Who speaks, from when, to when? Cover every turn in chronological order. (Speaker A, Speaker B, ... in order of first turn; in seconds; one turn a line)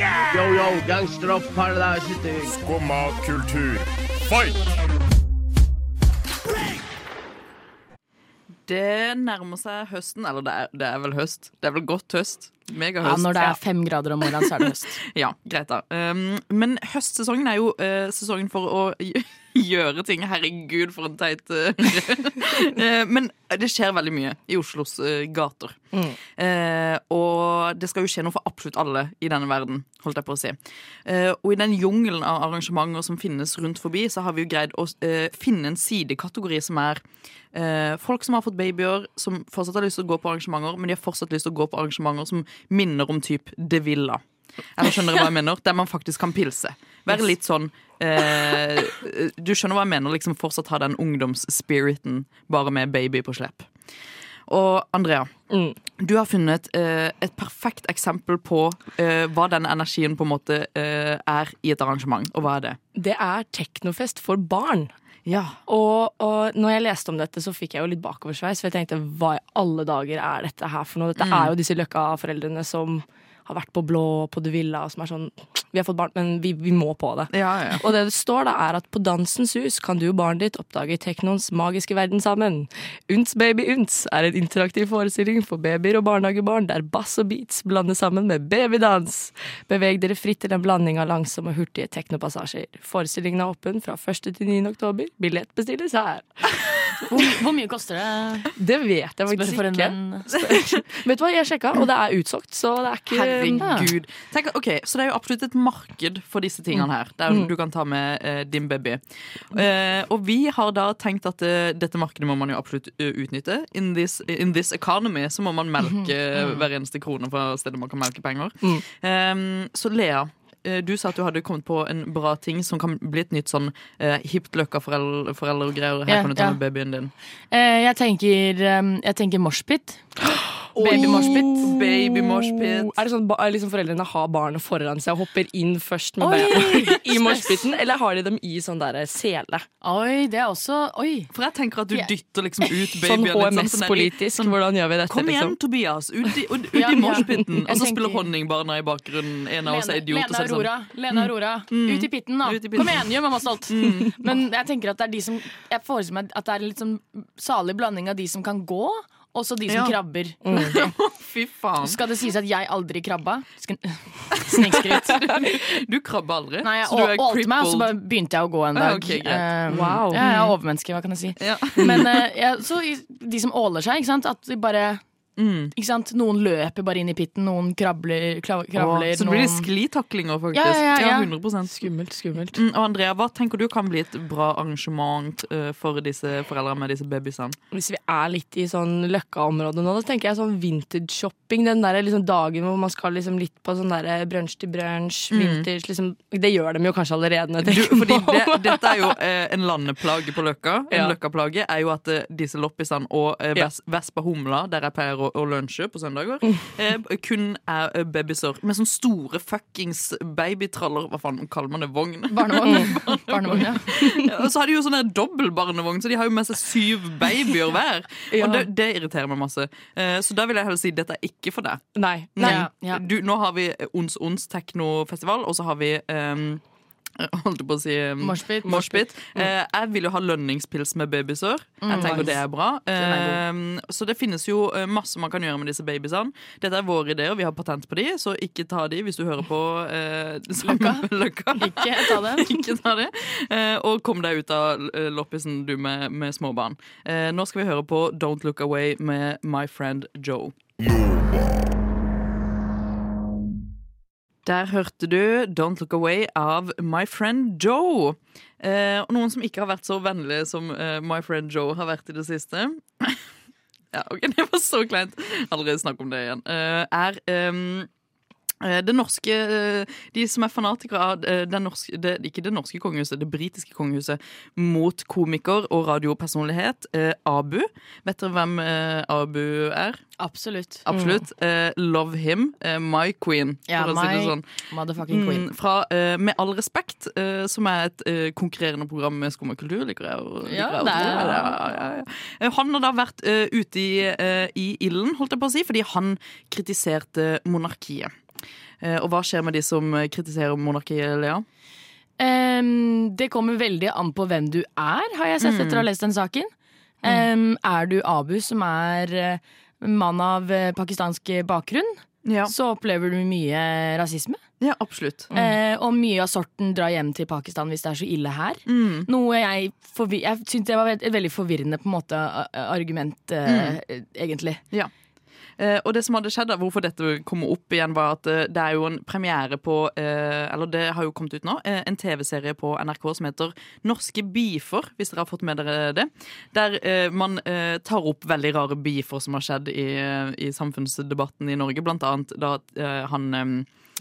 Speaker A: 0.3-2.5
Speaker B: 2.6-4.6
Speaker C: 8.7-13.6
Speaker D: 13.0-15.0
Speaker C: 14.2-25.8
Speaker E: 25.9-26.2
Speaker C: 26.3-37.0
Speaker C: 37.5-44.2
Speaker C: 44.8-53.7
Speaker C: 54.5-55.3
Speaker E: 55.5-55.8
Speaker C: 56.0-62.8
Speaker E: 63.0-64.9
Speaker C: 65.2-65.6
Speaker E: 65.7-96.4
Speaker C: 71.2-71.5
Speaker C: 77.3-77.8
Speaker D: 97.1-98.5
Speaker E: 98.5-103.7
Speaker D: 99.3-100.3
Speaker C: 103.1-109.0
Speaker D: 103.6-103.9
Speaker C: 109.5-127.1
Speaker D: 126.1-126.6
Speaker D: 127.5-130.1
Speaker E: 130.7-139.7
Speaker C: 130.8-132.9
Speaker D: 130.8-131.7
Speaker D: 136.2-137.6
Speaker C: 136.3-136.6
Speaker D: 139.8-141.3
Speaker C: 141.3-144.5
Speaker E: 143.0-145.6
Speaker C: 145.1-153.1
Speaker D: 146.7-148.3
Speaker E: 147.2-147.5
Speaker D: 149.6-160.4
Speaker C: 153.7-154.3
Speaker C: 159.7-159.9
Speaker E: 160.4-160.8
Speaker C: 160.6-162.0
Speaker D: 161.8-165.3
Speaker C: 164.4-167.9
Speaker D: 166.6-175.0
Speaker C: 168.7-170.5
Speaker E: 169.7-170.2
Speaker C: 171.4-172.2
Speaker E: 171.8-172.0
Speaker C: 175.4-175.7
Speaker D: 175.7-179.7
Speaker C: 178.8-181.7
Speaker D: 180.5-181.3
Speaker E: 181.7-182.6
Speaker C: 182.5-187.6
Speaker E: 187.7-199.0
Speaker C: 195.3-195.7
Speaker C: 197.6-221.8
Speaker E: 200.9-201.2
Speaker D: 212.3-213.9
Speaker E: 218.3-218.6
Speaker E: 221.9-222.6
Speaker C: 222.4-226.6
Speaker D: 222.4-223.0
Speaker C: 227.2-250.5
Speaker D: 228.2-229.0
Speaker D: 231.8-232.3
Speaker E: 232.0-232.3
Speaker D: 232.9-233.4
Speaker D: 240.6-241.1
Speaker D: 241.6-242.8
Speaker C: 254.4-263.2
Speaker C: 263.9-267.9
Speaker C: 268.6-280.0
Speaker D: 280.2-280.8
Speaker C: 280.8-284.5
Speaker D: 283.7-285.4
Speaker C: 285.1-298.1
Speaker D: 290.4-291.6
Speaker E: 290.9-291.4
Speaker C: 298.8-301.4
Speaker D: 302.2-306.5
Speaker C: 305.4-305.9
Speaker D: 307.0-314.4
Speaker C: 312.2-312.5
Speaker C: 314.6-315.3
Speaker E: 315.3-315.6
Speaker D: 315.3-324.6
Speaker C: 318.7-319.1
Speaker C: 323.4-323.8
Speaker C: 325.6-343.7